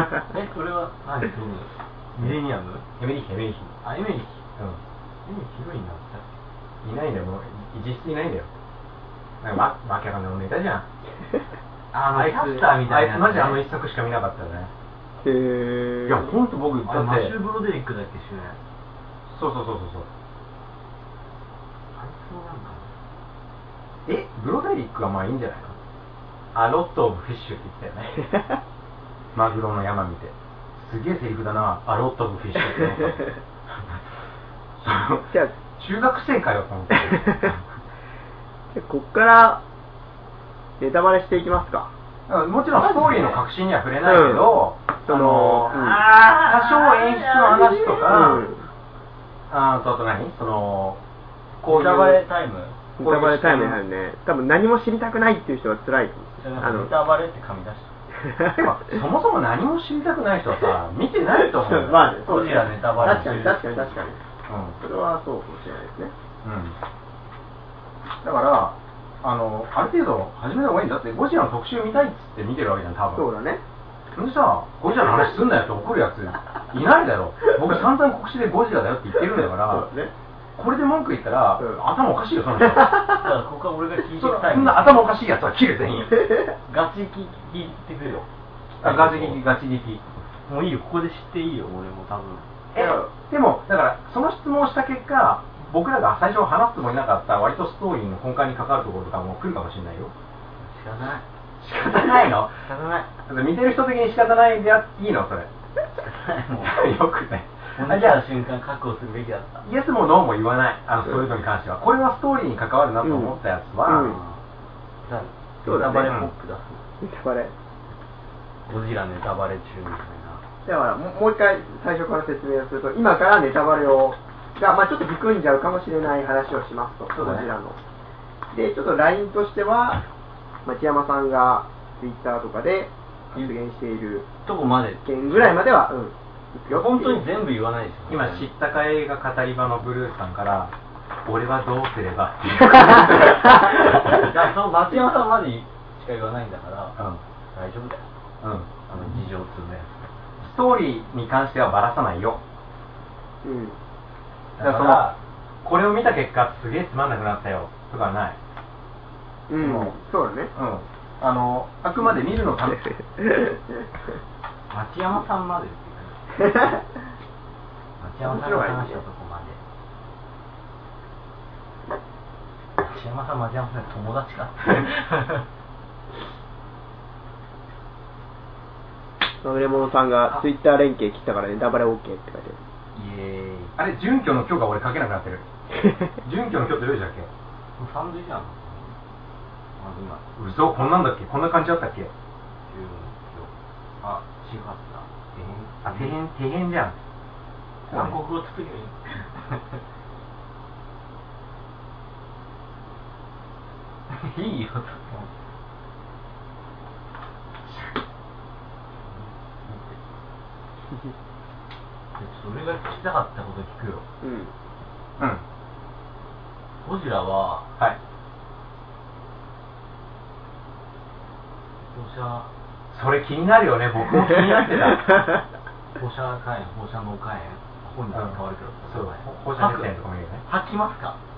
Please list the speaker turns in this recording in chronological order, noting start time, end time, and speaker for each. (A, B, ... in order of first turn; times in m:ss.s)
0:00.3-0:02.8 A
0:03.0-0:03.8 B
0:03.8-0:04.4 A
0:05.2-0:06.3 A
0:06.8-0:08.5 B
0:09.4-0:10.8 B
0:11.9-0:13.6 A
0:12.0-0:14.7 B
0:15.2-0:16.3 C
0:16.1-0:17.3 B
0:16.8-0:18.6 A
0:19.3-0:20.1 B
0:21.9-0:22.9 A
0:24.0-0:25.7 B
0:26.5-0:28.1 B
0:29.3-0:34.0 B
0:34.8-0:37.6 B
0:35.2-0:35.5 C
0:38.7-0:39.6 C
0:40.8-0:41.9 C
0:42.3-0:48.4 B
0:42.8-0:43.4 A
0:44.0-0:46.1 C
0:45.7-0:48.4 A
0:48.0-0:48.6 C
0:49.5-0:51.0 B
0:51.6-0:52.2 B
0:51.6-0:52.8 A
0:53.0-0:56.9 C
0:53.0-0:53.8 B
0:56.4-0:57.9 A
0:58.2-0:58.6 C
0:58.6-1:02.1 B
1:01.3-1:04.2 C
1:02.2-1:03.8 A
1:04.5-1:04.8 B
1:04.8-1:06.1 C
1:06.4-1:06.7 B
1:08.2-1:13.2 B
1:13.1-1:13.6 C
1:14.2-1:19.9 B
1:19.6-1:20.1 C
1:20.6-1:23.1 B
1:23.1-1:25.1 A
1:24.1-1:26.2 B
1:26.7-1:29.4 A
1:28.8-1:30.0 B
1:30.5-1:32.4 A
1:32.7-1:40.1 B
1:32.7-1:33.1 C
1:40.6-1:41.2 A
1:41.6-1:42.6 B
1:42.6-1:43.1 A
1:43.2-1:45.5 B
1:46.0-1:46.7 A
1:46.6-1:48.2 B
1:47.8-1:49.6 A
1:49.6-1:54.1 B
1:53.0-1:54.2 C
1:53.9-1:54.4 A
1:55.0-1:56.8 A
1:55.6-1:56.2 C
1:57.0-1:57.5 C
1:58.6-2:00.4 A
2:00.6-2:07.8 C
2:07.2-2:07.4 A
2:08.5-2:10.0 C
2:10.6-2:14.3 C
2:14.4-2:15.6 A
2:15.0-2:17.3 C
2:16.7-2:18.5 A
2:18.1-2:20.7 B
2:21.2-2:24.2 B
2:23.8-2:27.0 A
2:27.5-2:28.0 A
2:28.4-2:28.7 B
2:28.9-2:30.0 A
2:30.4-2:32.4 B
2:33.4-2:33.8 C
2:34.6-2:35.2 A
2:34.6-2:35.1 B
2:35.6-2:38.4 B
2:39.5-2:40.5 C
2:39.6-2:39.9 B
2:40.5-2:42.9 B
2:43.2-2:43.5 C
2:44.7-2:46.4 A
2:48.0-2:49.6 A
2:48.2-2:49.0 C
2:52.8-2:55.4 A
2:59.4-3:02.6 C
3:02.9-3:03.7 A
3:03.8-3:05.4 B
3:06.2-3:07.3 B
3:07.8-3:09.0 A
3:09.8-3:10.3 A
3:10.4-3:12.1 B
3:12.7-3:16.1 A
3:15.8-3:16.9 B
3:17.9-3:19.8 A
3:17.9-3:18.2 B
3:24.1-3:25.3 A
3:29.0-3:30.0 A
3:32.2-3:34.0 A
3:34.2-3:34.5 C
3:36.8-3:37.7 A
3:41.9-3:42.5 A
3:42.9-3:45.2 B
3:46.0-3:49.9 A
3:48.1-3:50.4 B
3:50.4-3:51.2 A